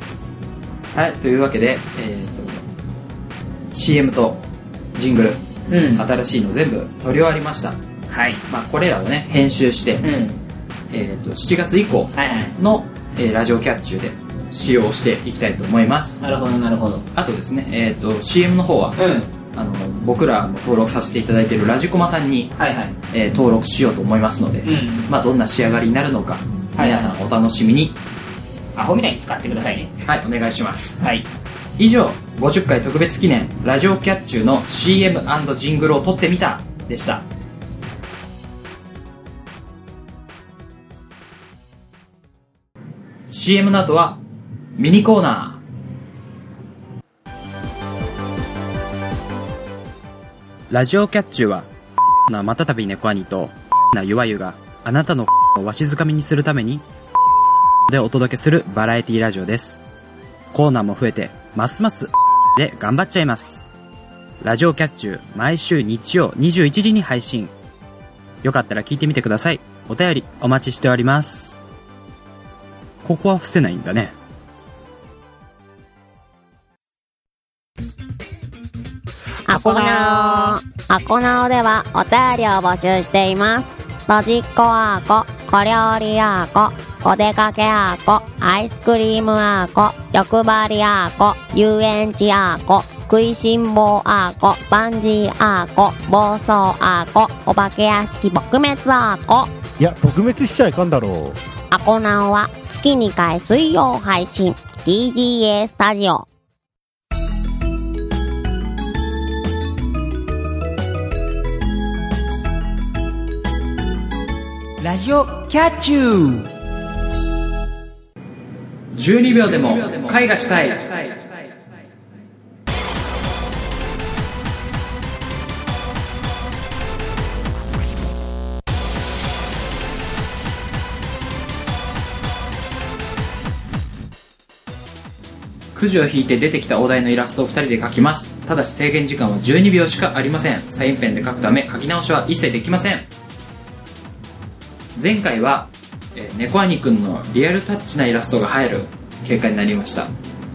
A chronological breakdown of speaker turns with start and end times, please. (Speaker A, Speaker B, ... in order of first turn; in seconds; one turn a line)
Speaker A: 0.9-2.6
Speaker A: 3.7-4.4
Speaker A: 5.0-5.4
Speaker B: 5.7-6.0
Speaker A: 5.9-7.8
Speaker B: 8.1-8.4
Speaker A: 8.5-10.1
Speaker B: 10.0-10.4
Speaker A: 10.9-16.2
Speaker B: 12.2-12.6
Speaker B: 16.2-17.1
Speaker A: 17.1-19.0
Speaker B: 19.0-19.3
Speaker A: 19.5-22.5
Speaker B: 22.6-23.0
Speaker A: 23.1-28.0
Speaker B: 24.6-25.1
Speaker B: 26.8-27.1
Speaker B: 28.8-29.9
Speaker A: 30.0-31.0
Speaker A: 31.8-37.2
Speaker A: 43.3-44.2
Speaker A: 44.8-45.6
Speaker A: 50.7-51.7
Speaker A: 52.3-56.9
Speaker A: 57.9-59.9
Speaker A: 60.5-63.7
Speaker A: 64.4-67.5
Speaker A: 68.4-71.6
Speaker A: 73.0-74.1
Speaker C: 79.5-99.5
Speaker D: 79.5-80.5
Speaker D: 99.8-101.4
Speaker C: 101.7-106.3
Speaker B: 114.8-116.5
Speaker A: 118.9-121.3
Speaker A: 135.7-143.1
Speaker A: 145.0-150.1